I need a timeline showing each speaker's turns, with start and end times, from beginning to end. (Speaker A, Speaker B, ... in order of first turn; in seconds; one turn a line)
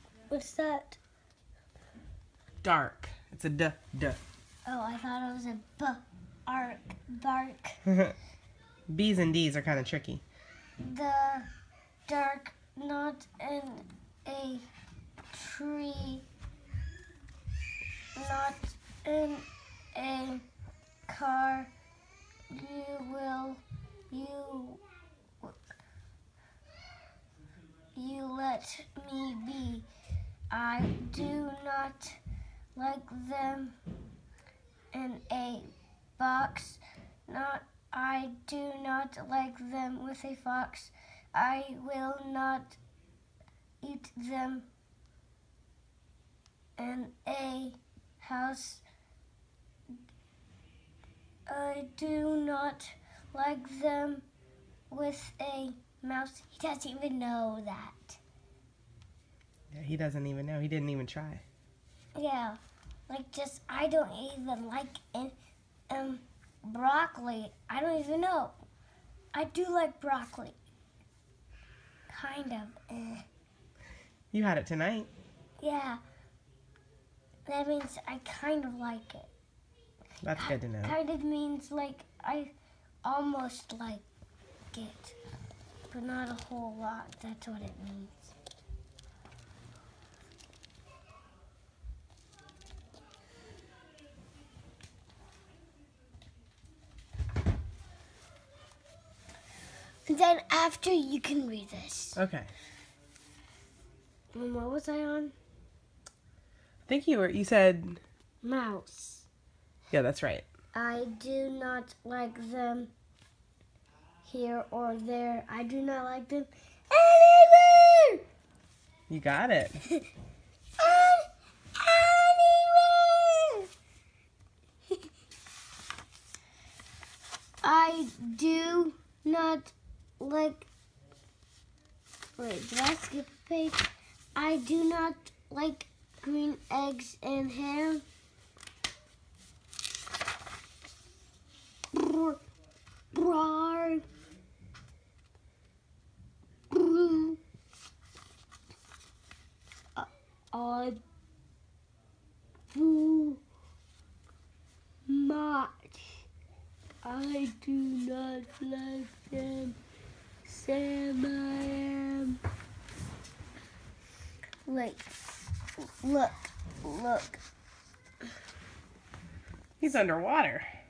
Speaker A: 0.3-1.0
Speaker B: 2.6-4.2
Speaker A: 4.6-7.8
Speaker B: 7.9-8.1
Speaker B: 8.9-10.2
Speaker A: 10.8-11.5
Speaker A: 12.1-14.7
Speaker A: 15.3-16.2
Speaker A: 18.1-20.4
Speaker A: 21.1-21.7
Speaker A: 22.5-24.8
Speaker A: 27.9-29.9
Speaker A: 30.5-32.2
Speaker A: 32.8-33.8
Speaker A: 34.9-42.8
Speaker A: 43.8-44.7
Speaker A: 46.8-48.8
Speaker A: 51.5-54.2
Speaker A: 54.9-58.2
Speaker B: 59.7-61.4
Speaker A: 62.1-65.3
Speaker A: 65.9-68.5
Speaker A: 69.3-70.5
Speaker A: 72.1-73.2
Speaker B: 74.3-75.1
Speaker A: 75.6-76.0
Speaker A: 77.5-79.3
Speaker B: 80.2-80.9
Speaker A: 80.3-82.5
Speaker A: 83.0-84.0
Speaker A: 84.7-85.2
Speaker A: 85.9-88.3
Speaker A: 100.0-102.2
Speaker B: 102.2-102.5
Speaker A: 104.3-105.3
Speaker B: 106.8-108.0
Speaker A: 108.4-109.2
Speaker B: 109.9-110.5
Speaker A: 110.7-112.9
Speaker A: 114.2-118.2
Speaker B: 119.1-119.8
Speaker A: 120.8-121.2
Speaker A: 121.8-123.7
Speaker A: 127.6-130.7
Speaker A: 132.4-138.0
Speaker A: 141.9-142.4
Speaker A: 143.1-144.0
Speaker A: 146.7-147.4
Speaker A: 149.9-151.0
Speaker A: 152.7-153.4
Speaker A: 155.1-156.2
Speaker A: 157.0-159.8
Speaker A: 160.4-162.4
Speaker A: 164.7-165.2
Speaker A: 165.8-167.4
Speaker B: 169.8-170.7